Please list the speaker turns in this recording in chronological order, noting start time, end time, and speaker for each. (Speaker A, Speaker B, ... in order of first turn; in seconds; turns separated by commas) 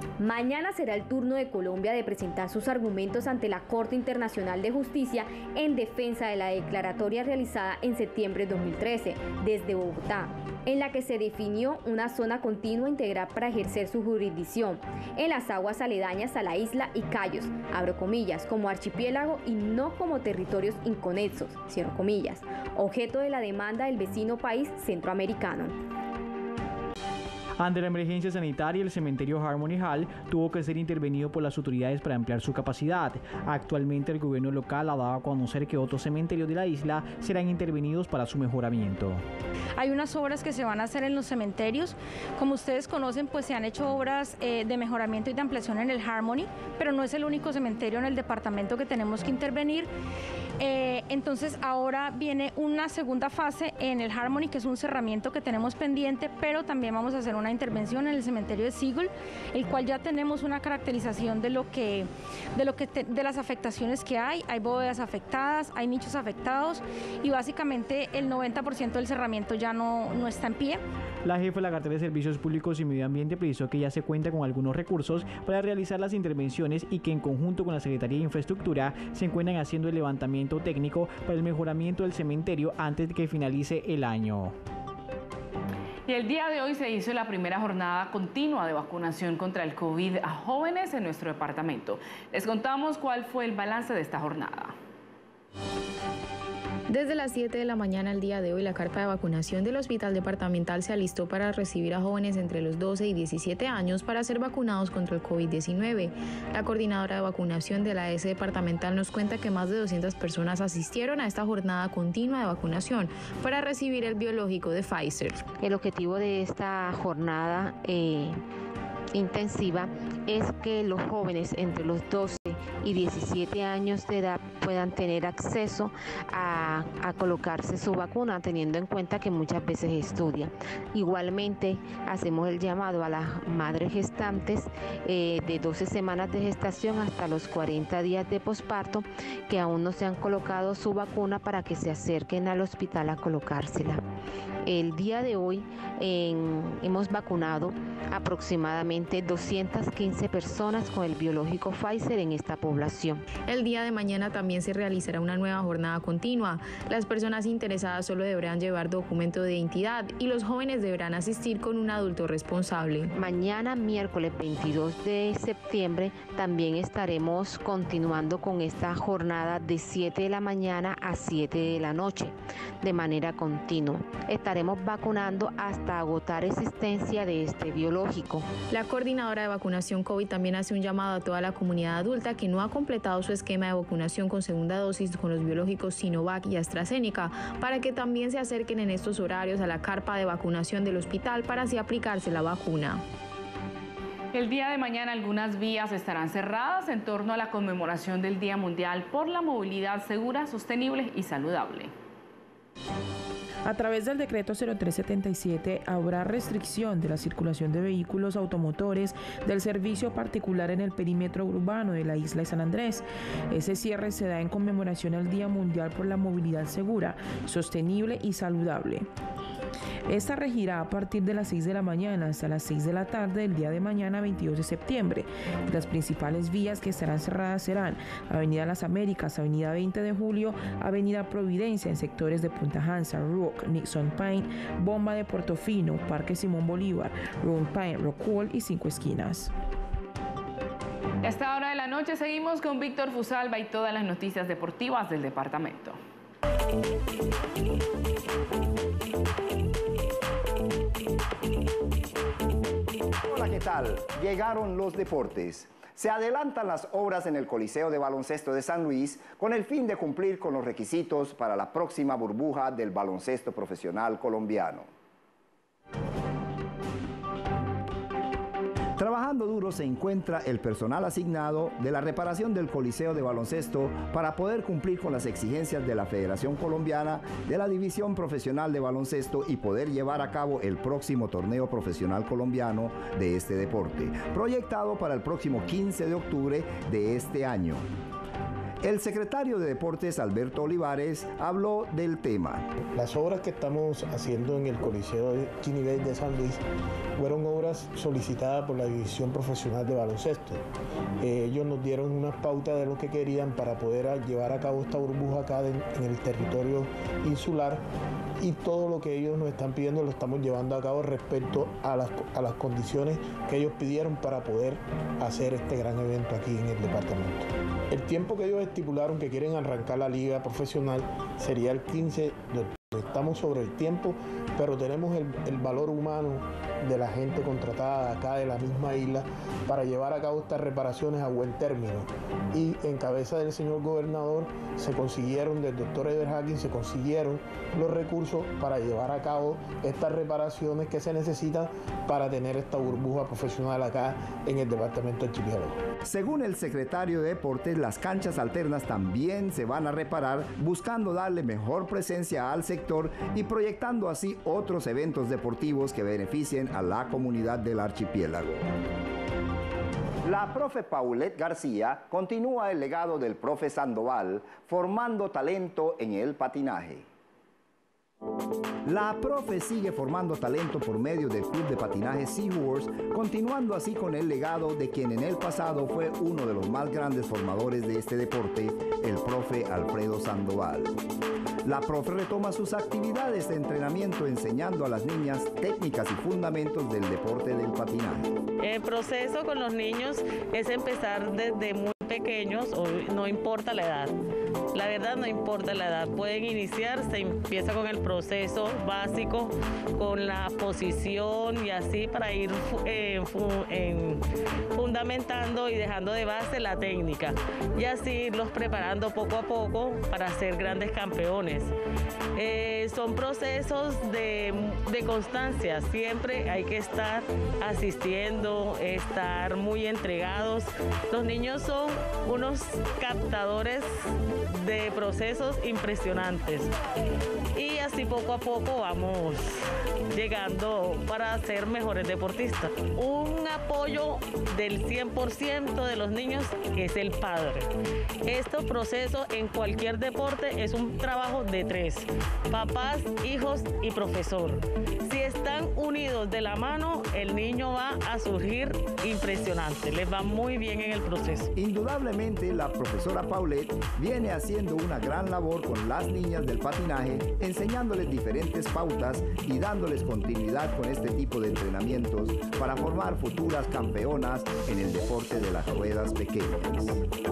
Speaker A: 0.2-25.7, Speaker B: 27.6-39.2, Speaker C: 39.8-49.9, Speaker C: 50.6-70.8, Speaker B: 71.2-84.5, Speaker D: 86.1-94.7, Speaker E: 96.9-115.4, Speaker F: 115.6-118.3, Speaker F: 119.2-133.2, Speaker F: 133.9-134.5, Speaker F: 135.7-143.8, Speaker F: 146.8-147.4, Speaker F: 148.2-150.7, Speaker F: 151.2-152.4, Speaker E: 153.4-163.1, Speaker F: 163.2-172.2, Speaker F: 172.8-178.4, Speaker E: 178.7-193.0, Speaker D: 194.3-201.9, Speaker G: 203.6-219.1, Speaker G: 220.1-239.5, Speaker D: 241.2-246.0, Speaker H: 253.2-264.9, Speaker H: 269.0-287.8, Speaker H: 288.8-292.7, Speaker I: 292.9-296.6, Speaker I: 297.2-300.6, Speaker I: 301.2-307.8, Speaker I: 308.4-345.8, Speaker H: 346.0-358.7, Speaker H: 360.2-367.0, Speaker H: 368.9-380.9, Speaker H: 381.6-388.3, Speaker J: 388.6-394.1, Speaker J: 394.7-404.2, Speaker J: 404.7-411.7, Speaker J: 412.4-423.9, Speaker J: 424.5-426.7, Speaker J: 427.5-429.6, Speaker J: 430.1-437.7, Speaker J: 438.2-451.5, Speaker H: 451.6-467.0